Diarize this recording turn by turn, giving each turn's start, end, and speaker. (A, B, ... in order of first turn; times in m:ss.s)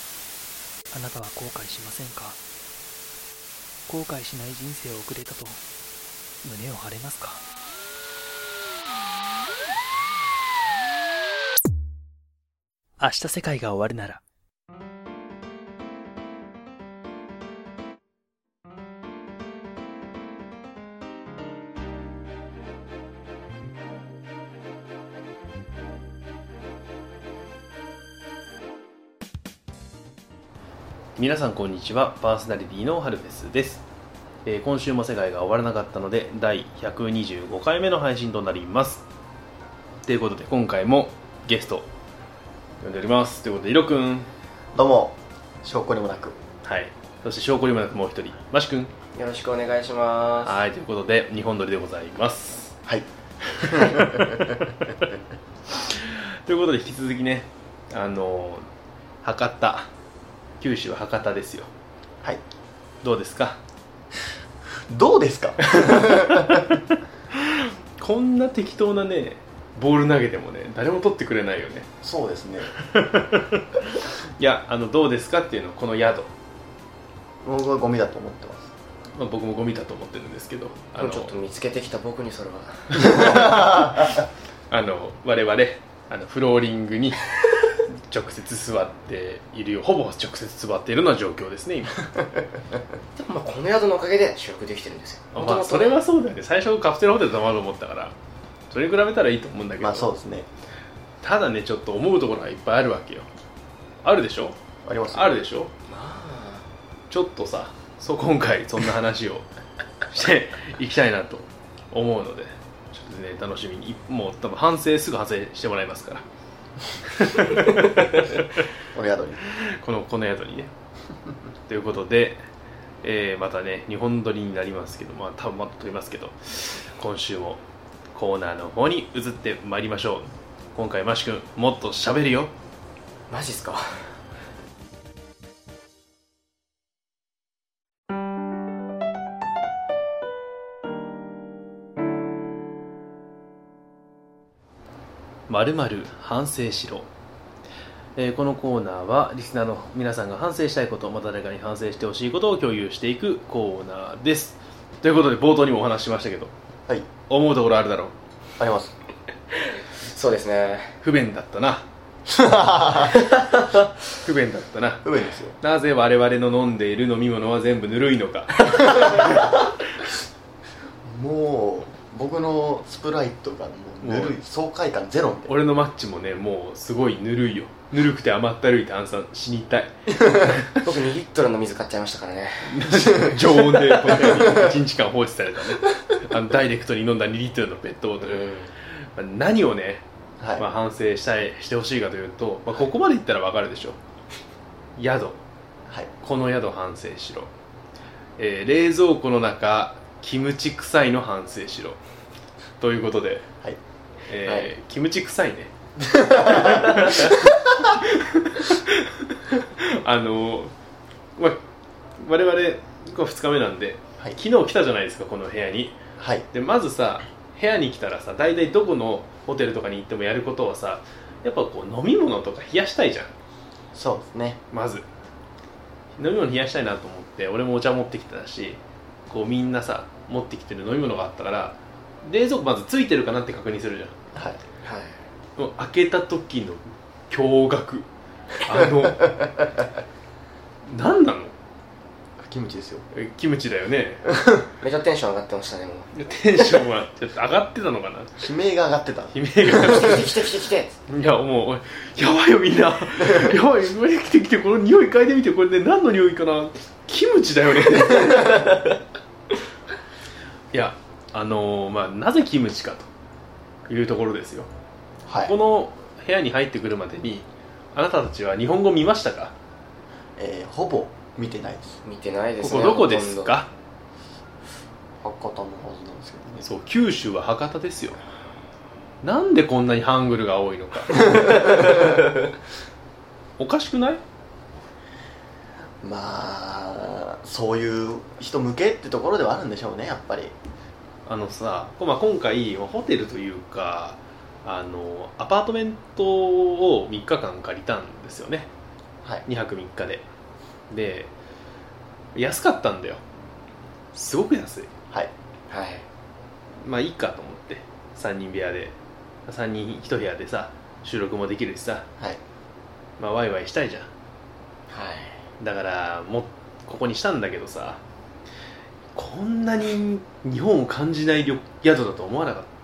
0:00.9-0:02.4 A
0:03.9-0:05.6 A
0:06.4-0:07.4 A
0:13.0-0:14.2 A
0:31.2-0:33.8 B
0:34.4-0:39.0 B
0:40.0-0:41.9 B
0:42.8-0:44.3 B
0:44.8-0:46.4 C
0:46.6-0:48.9 B
0:49.2-0:50.6 D
0:50.4-0:52.8 B
0:53.5-0:55.1 B
0:53.7-0:54.6 C
0:55.8-0:58.7 B
0:59.2-0:59.9 B
1:00.6-1:01.7 B
1:03.0-1:03.6 B
1:04.9-1:06.8 C
1:05.6-1:11.9 B
1:12.0-1:12.7 C
1:12.8-1:16.3 B
1:17.4-1:18.7 C
1:19.2-1:21.3 B
1:21.0-1:23.7 D
1:22.9-1:24.1 B
1:23.2-1:24.1 C
1:24.7-1:27.2 B
1:28.1-1:32.1 B
1:33.2-1:36.0 D
1:35.3-1:38.2 B
1:38.7-1:40.1 B
1:39.8-1:40.5 C
1:41.2-1:43.3 B
1:44.0-1:44.6 B
1:44.8-1:45.4 C
1:45.1-1:45.7 B
1:45.9-1:46.7 D
1:47.1-1:49.5 B
1:50.1-1:56.2 B
1:57.0-1:58.4 B
1:58.9-1:59.4 C
1:59.5-2:00.7 B
2:01.7-2:02.4 B
2:03.0-2:07.6 B
2:08.1-2:12.5 B
2:13.3-2:14.0 D
2:25.5-2:27.1 B
2:28.2-2:36.5 B
2:37.3-2:38.1 B
2:38.6-2:39.0 C
2:39.6-2:41.0 D
2:41.0-2:41.9 B
2:42.3-2:43.3 C
2:44.2-2:45.0 B
2:45.0-2:45.6 C
2:45.6-2:49.3 B
2:51.0-2:55.6 C
2:54.0-2:54.4 B
2:55.5-3:00.8 B
3:00.8-3:03.0 D
3:02.7-3:10.0 B
3:04.4-3:04.7 C
3:08.2-3:08.7 D
3:10.4-3:10.7 C
3:10.6-3:14.0 B
3:15.0-3:15.4 B
3:16.2-3:17.5 B
3:18.4-3:22.0 B
3:22.8-3:23.5 B
3:24.3-3:25.7 B
3:26.0-3:27.5 C
3:26.2-3:30.7 B
3:32.2-3:36.0 B
3:36.2-3:36.5 C
3:36.5-3:43.3 B
3:43.9-3:44.6 C
3:44.7-3:45.1 B
3:46.2-3:54.2 B
3:54.4-3:54.6 C
3:54.8-3:55.2 D
3:55.6-3:58.1 B
3:58.6-3:59.5 B
4:00.9-4:01.5 B
4:02.4-4:03.1 C
4:03.1-4:04.2 B
4:04.3-4:04.7 C
4:04.8-4:06.1 D
4:06.1-4:08.4 B
4:08.4-4:10.2 C
4:09.3-4:10.3 B
4:09.8-4:11.0 D
4:11.1-4:18.8 B
4:20.7-4:23.1 B
4:23.9-4:24.7 B
4:25.3-4:25.6 C
4:25.4-4:29.5 B
4:30.4-4:32.0 C
4:32.0-4:33.6 D
4:32.6-4:33.7 B
4:35.2-4:36.6 C
4:36.6-4:38.2 B
4:39.2-4:42.0 B
4:41.3-4:41.9 C
4:43.6-4:44.2 B
4:46.0-4:50.5 C
4:51.3-4:58.7 B
4:59.5-5:00.3 B
5:00.9-5:01.3 B
5:02.4-5:03.2 B
5:04.1-5:04.9 B
5:05.7-5:06.1 D
5:06.8-5:12.1 B
5:13.2-5:14.1 B
5:14.9-5:15.4 D
5:15.6-5:18.0 B
5:19.2-5:22.7 B